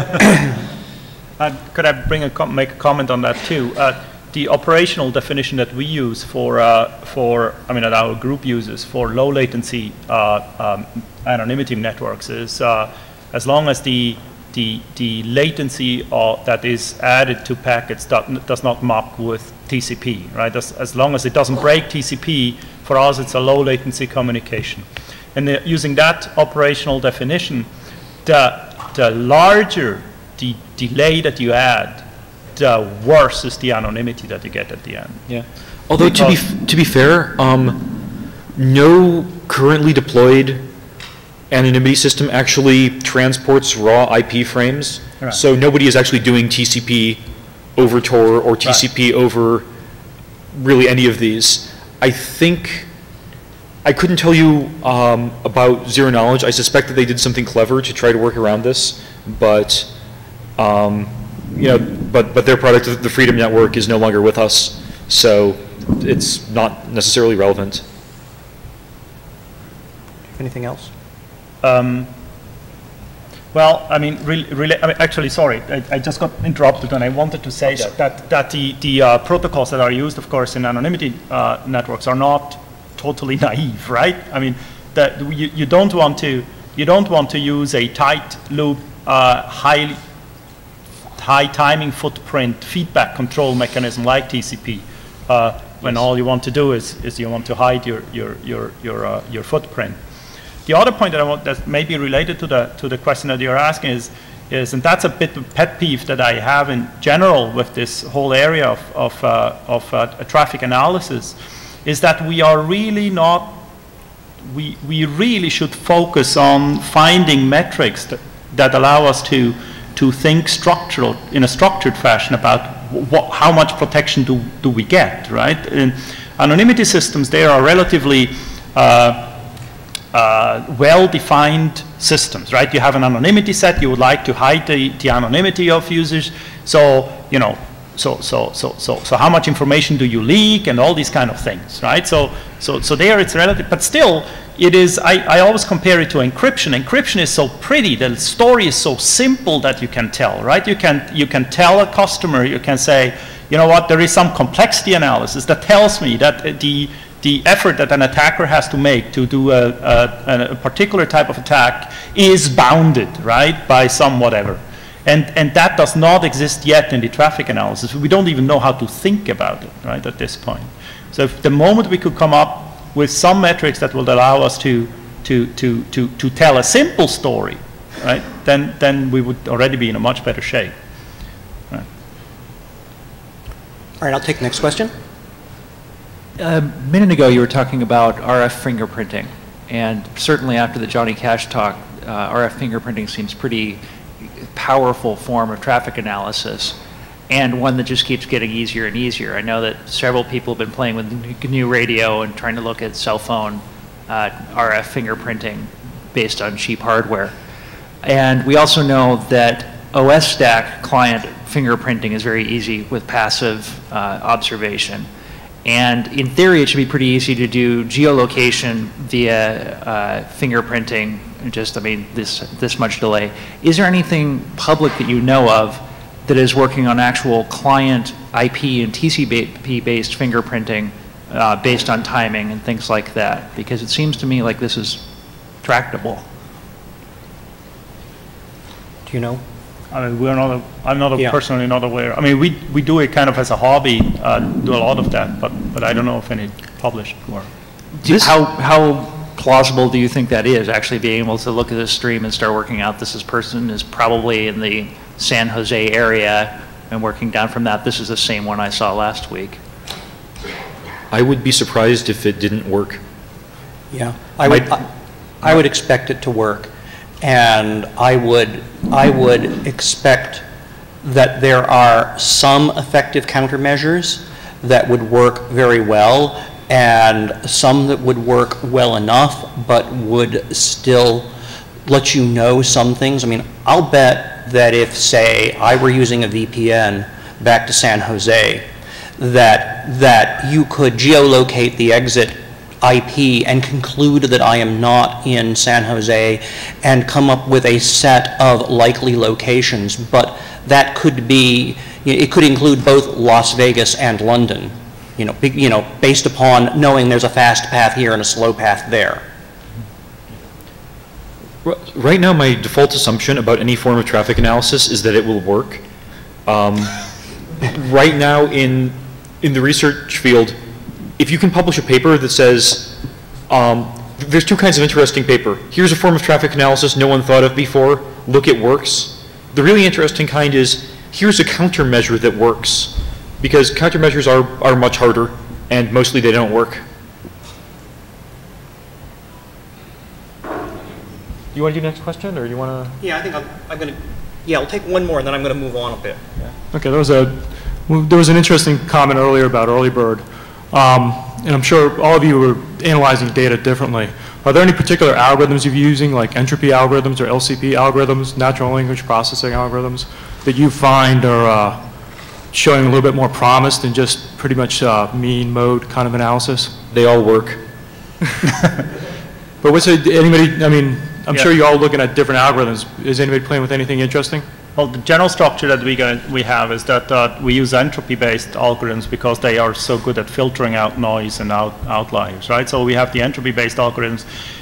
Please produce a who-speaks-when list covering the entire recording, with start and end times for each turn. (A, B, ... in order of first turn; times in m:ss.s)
0:01.4-0:27.7 A
0:28.2-0:32.0 A
0:32.6-0:35.2 A
0:35.3-0:38.0 B
0:36.0-0:36.4 A
0:38.5-0:40.7 B
0:41.5-0:47.2 B
0:47.8-0:49.6 B
0:50.5-0:52.9 B
0:53.8-0:59.9 B
1:00.6-1:07.8 B
1:10.4-1:10.9 C
1:11.6-1:12.1 A
1:13.5-1:30.0 A
1:31.2-1:40.0 A
1:40.6-1:53.6 A
1:54.4-2:09.4 A
2:10.1-3:00.7 A
3:04.0-3:04.9 C
3:06.4-3:13.8 D
3:14.5-3:16.8 D
3:17.3-3:27.3 D
3:28.0-3:35.1 D
3:35.6-3:55.0 D
3:55.6-3:56.2 D
3:59.1-3:59.4 C
3:59.9-4:07.5 A
4:08.0-4:19.6 D
4:08.1-4:08.4 B
4:21.1-4:23.0 B
4:23.9-4:24.9 C
4:24.4-4:24.7 B
4:25.4-4:30.4 C
4:31.0-4:41.3 C
4:41.8-4:48.6 C
4:49.2-5:09.2 C
5:11.6-5:15.8 B
5:16.4-5:17.0 B
5:17.6-5:20.6 B
5:21.2-5:23.0 B
5:23.5-5:36.8 B
5:41.5-5:42.9 B
5:43.0-5:46.2 C
5:46.7-6:01.9 E
6:02.5-6:06.8 E
6:06.9-6:07.6 B
6:09.6-6:14.4 E
6:14.8-6:24.3 A